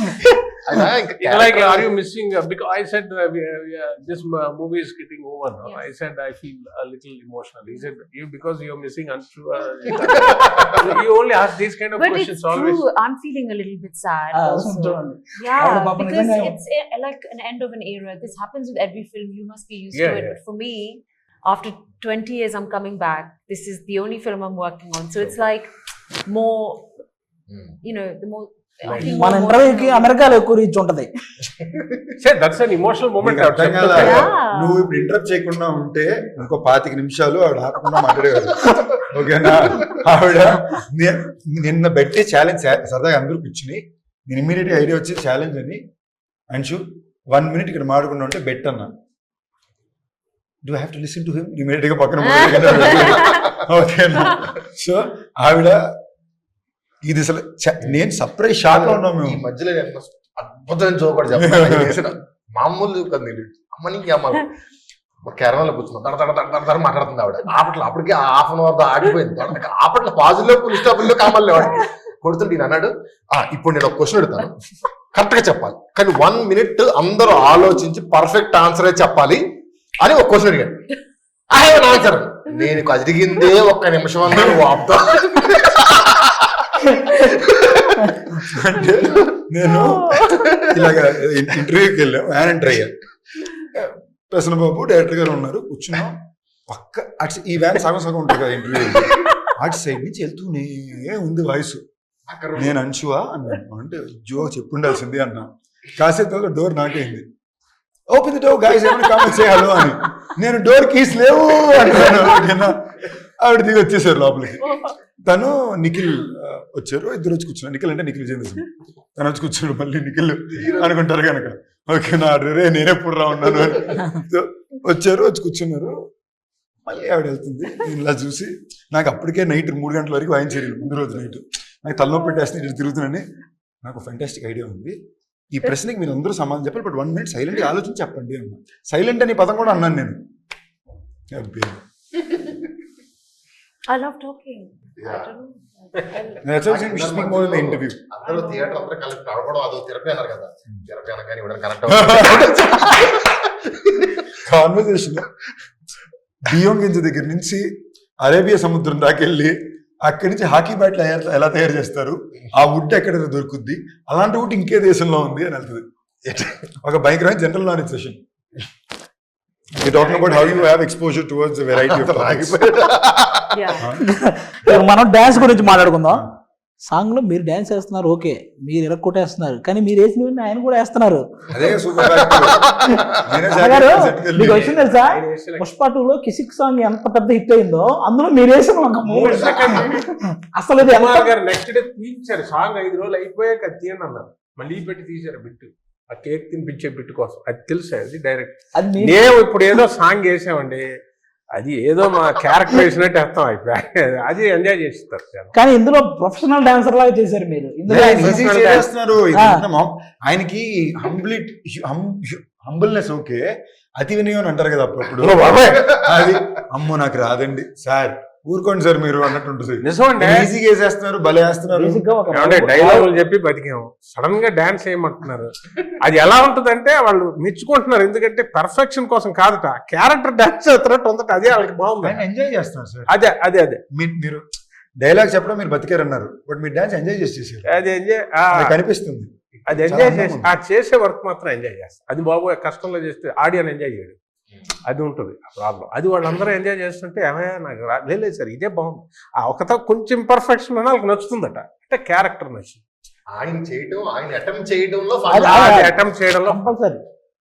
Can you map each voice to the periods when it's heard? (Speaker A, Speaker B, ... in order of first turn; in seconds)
Speaker A: 0.6-1.9, 58.7-64.5, 65.2-74.6, 75.1-79.4, 80.0-80.8, 81.5-88.2, 90.3-90.8, 102.3-102.8, 145.0-145.3, 146.5-153.9, 166.3-166.6, 171.7-173.5, 182.1-183.1, 253.3-255.9
Speaker B: 1.2-12.8, 19.9-20.4, 28.8-29.2, 32.2-34.3, 169.8-170.7, 184.4-185.7, 189.0-190.0, 190.8-200.9, 201.5-205.5, 215.2-215.9, 219.8-220.5, 222.3-232.2, 233.1-233.8, 237.7-238.8, 239.7-244.2, 244.9-252.8, 255.4-256.7
Speaker C: 10.1-10.4, 12.0-25.7, 26.3-26.9, 27.8-30.2, 33.9-34.9, 52.4-53.5, 89.8-90.4, 114.7-114.9, 143.9-146.4, 148.3-148.8, 173.5-173.9
Speaker D: 14.3-16.6, 29.0-31.1, 174.0-176.2, 176.9-181.3, 183.4-191.3, 198.7-199.4, 205.5-209.6, 221.7-223.1, 255.3-255.9, 256.4-257.0
Speaker E: 33.2-45.8, 46.5-48.9, 50.6-55.9, 57.0-59.4, 61.3-62.0, 84.3-84.6, 88.3-93.0, 93.7-101.8, 102.5-107.3, 108.1-126.0, 126.8-133.2, 133.8-135.0, 135.5-140.2, 141.3-141.8, 146.4-148.0, 151.9-153.1, 154.3-155.3, 156.4-157.7, 158.2-165.8, 166.8-168.2, 169.7-172.9, 181.5-184.7, 207.9-222.0, 232.0-233.1, 233.9-234.4, 235.0-237.8, 238.5-240.5